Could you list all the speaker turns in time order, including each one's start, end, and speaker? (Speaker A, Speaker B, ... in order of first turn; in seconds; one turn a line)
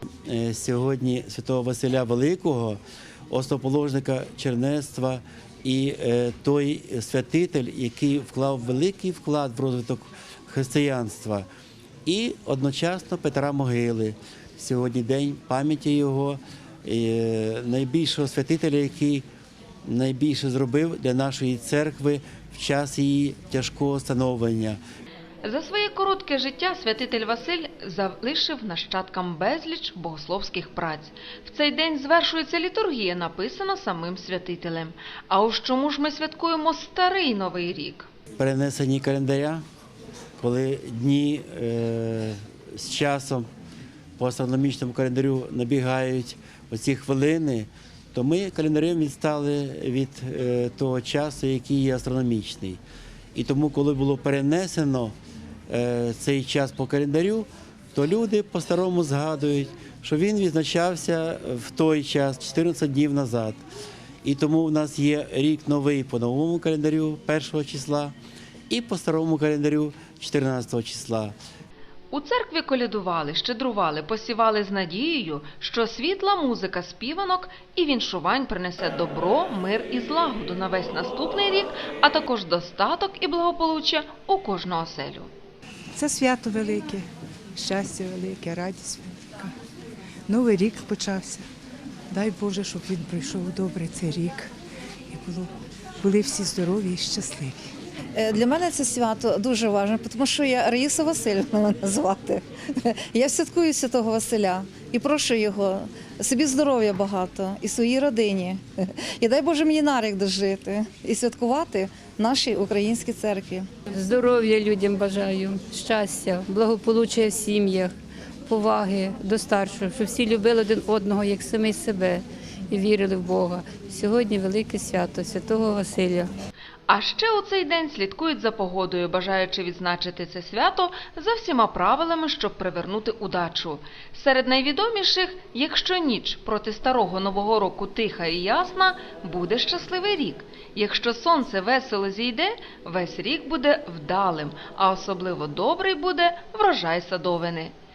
Speaker A: 0.3-11.5
Speaker A: 12.1-19.2
Speaker A: 19.9-24.8
Speaker B: 25.4-38.1
Speaker A: 38.4-39.6
Speaker A: 40.4-43.5
Speaker A: 44.2-52.8
Speaker A: 53.4-55.1
Speaker A: 55.7-63.6
Speaker A: 64.2-68.1
Speaker A: 68.7-71.3
Speaker B: 72.1-85.3
Speaker C: 85.9-89.5
Speaker C: 90.3-91.5
Speaker C: 92.1-94.5
Speaker C: 95.1-97.7
Speaker D: 98.2-113.7
Speaker E: 113.9-117.9
Speaker E: 118.5-126.3
Speaker B: 126.9-147.7